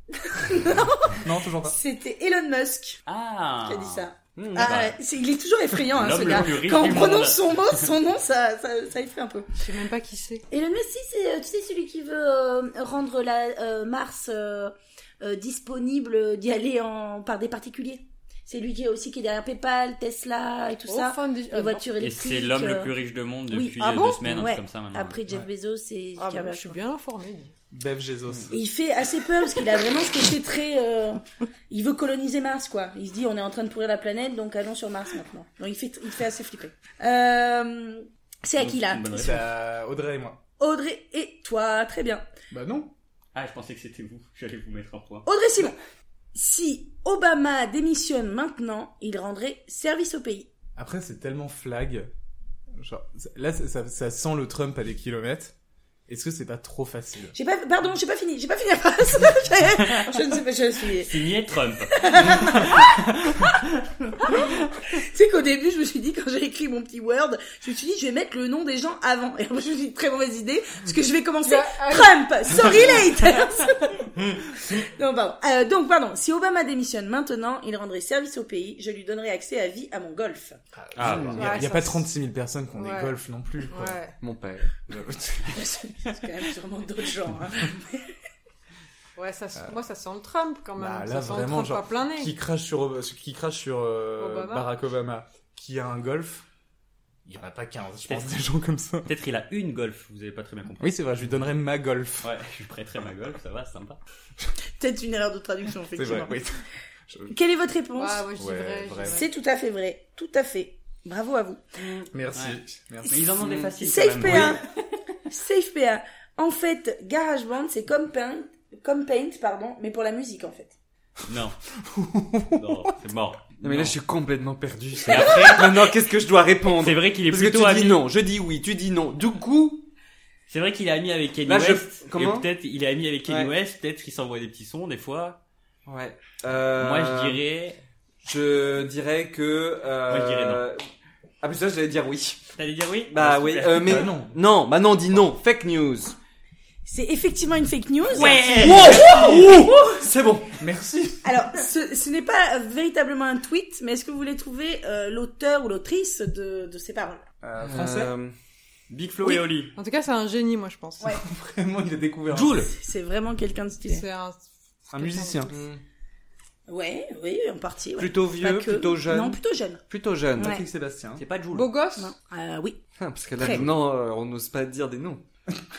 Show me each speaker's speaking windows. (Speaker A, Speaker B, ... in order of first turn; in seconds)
Speaker A: 0.2-3.0, 3.6-9.5, 10.5-22.9, 23.5-26.8, 28.5-39.4, 40.6-42.2, 45.3-45.8, 46.4-50.5, 57.3-61.3, 61.9-63.0, 64.3-80.6, 85.5-88.1, 104.8-106.4, 107.3-108.3, 109.1-111.8, 113.8-114.6, 115.3-120.7, 146.9-150.0, 151.2-157.2, 162.4-164.0, 166.7-169.8, 170.4-170.6, 172.0-172.9, 173.4-173.7
Speaker B: 1.1-1.8, 27.7-28.6, 39.1-40.4, 42.5-42.9, 50.8-52.1, 52.8-55.5, 56.1-57.4, 80.7-84.0, 90.8-96.5, 97.2-99.1, 100.8-102.3, 105.9-107.3, 108.4-109.2, 112.1-113.4, 121.8-122.9, 143.8-144.4, 150.6-151.6, 157.4-158.1, 161.1-162.7, 164.9-165.6, 170.4-171.2
Speaker C: 3.1-4.1, 4.6-5.0, 5.8-7.9, 22.0-25.2, 38.6-39.4, 43.3-45.3, 61.0-63.7, 81.0-81.3, 99.0-101.1, 102.2-104.0, 112.3-114.6, 121.3-121.6, 122.5-124.0, 125.1-125.9, 126.7-128.0, 130.5-135.4, 136.8-137.8, 140.1-140.6, 142.6-144.0, 148.1-149.5, 158.9-159.7, 171.2-171.7
Speaker D: 4.3-4.8, 81.0-81.6, 84.2-85.5, 113.4-113.7, 123.6-129.9, 131.5-132.5, 135.9-137.4, 138.2-140.8, 141.4-142.4, 143.1-146.2, 148.2-150.6, 157.6-158.3, 165.5-165.8, 168.0-170.7, 173.0-175.2
Speaker E: 9.6-10.5, 20.9-21.9, 26.2-27.5, 71.4-72.2, 81.4-82.1, 82.8-83.2, 83.7-84.1, 89.2-92.3, 94.2-94.7, 108.0-109.2, 159.8-161.1, 163.8-165.5, 171.5-172.1